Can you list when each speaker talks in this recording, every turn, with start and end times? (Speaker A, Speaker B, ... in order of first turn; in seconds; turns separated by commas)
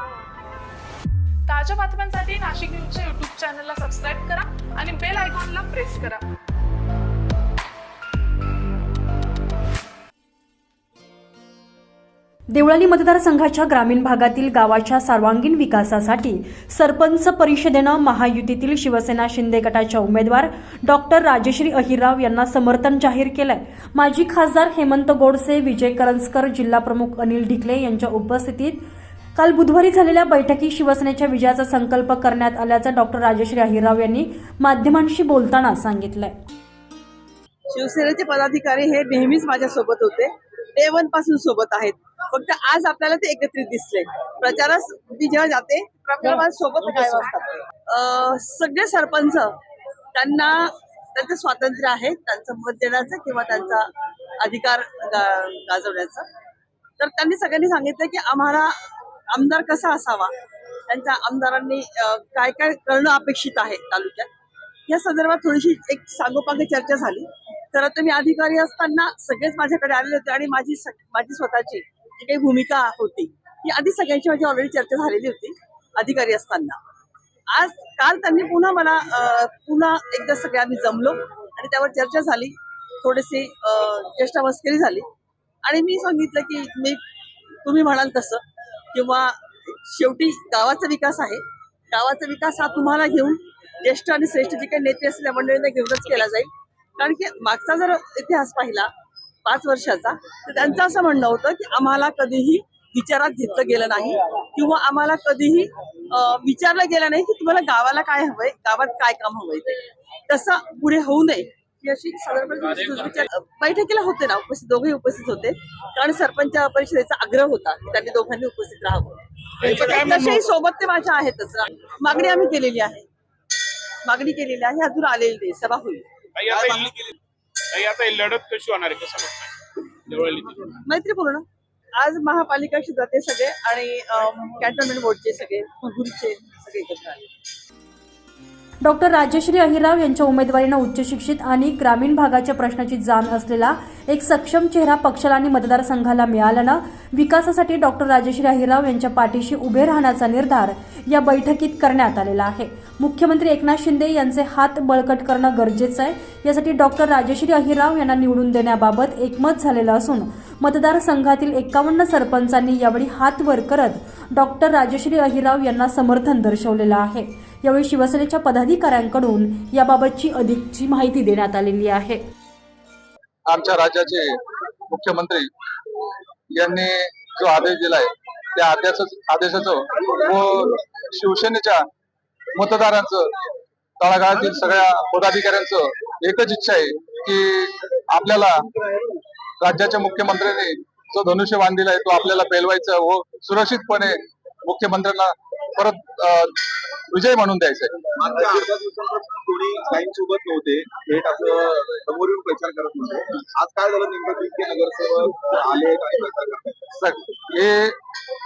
Speaker A: 1.5-6.2, Speaker B: 12.5-28.8, Speaker B: 29.4-36.3, Speaker C: 37.7-49.5, Speaker C: 50.2-53.9, Speaker C: 54.4-56.3, Speaker C: 57.0-58.7, Speaker C: 59.3-60.3, Speaker C: 60.9-64.3, Speaker C: 64.9-76.8, Speaker C: 77.5-85.1, Speaker C: 85.7-87.0, Speaker C: 87.7-88.4, Speaker C: 88.9-98.9, Speaker C: 99.5-123.1, Speaker D: 119.6-120.5, Speaker C: 124.1-126.9, Speaker D: 126.4-127.1, Speaker D: 127.7-129.6, Speaker D: 130.1-130.7, Speaker C: 130.9-131.4, Speaker C: 132.0-137.3, Speaker B: 138.8-172.2, Speaker E: 173.5-174.4, Speaker E: 174.9-175.5, Speaker E: 176.5-181.8, Speaker E: 182.6-183.3, Speaker E: 184.0-188.6, Speaker E: 189.6-196.6, Speaker E: 197.1-198.1, Speaker F: 198.2-206.8, Speaker E: 207.0-208.0